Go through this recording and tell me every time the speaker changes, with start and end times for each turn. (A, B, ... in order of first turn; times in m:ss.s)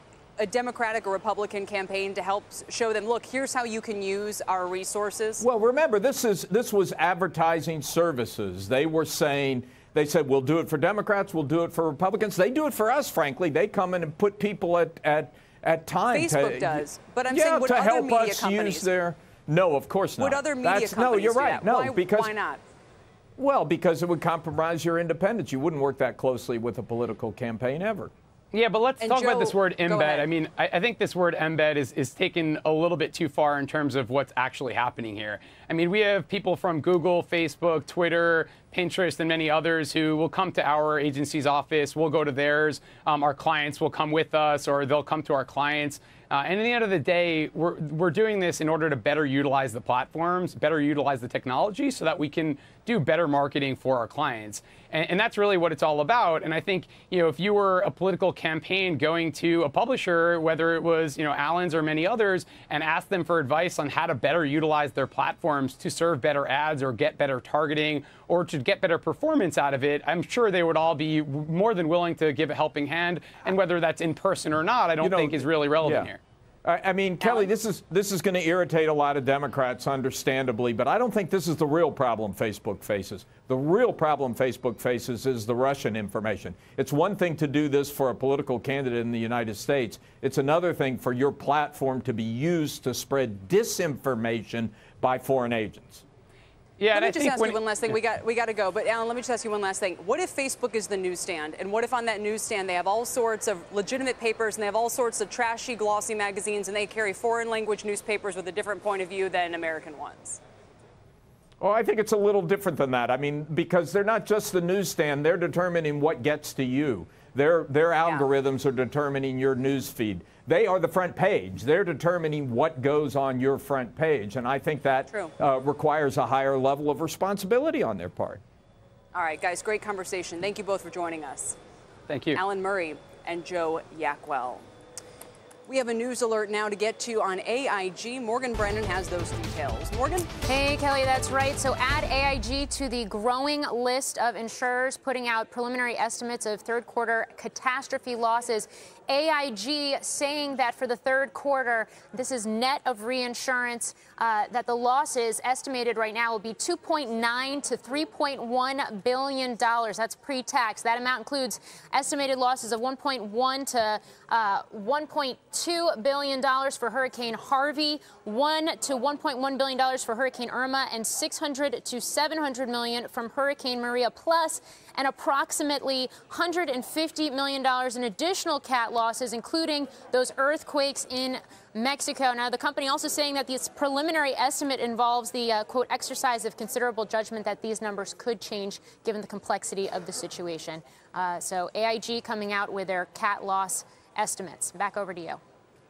0:00.4-0:05.4 A
0:05.4-0:22.3 B
0:16.1-0:18.9 A
0:20.2-0:22.6 A
0:23.4-0:28.1 B
0:28.5-1:16.2 C
0:29.0-0:30.3 A
1:15.0-1:16.1 B
1:16.6-1:36.0 B
1:17.2-1:17.5 A
1:36.8-1:37.9 C
1:36.9-1:50.4 A
1:51.6-2:08.4 B
2:09.1-2:11.6 A
2:12.1-2:12.4 C
2:12.4-2:14.6 A
2:15.7-2:20.3 A
2:20.5-3:15.4 D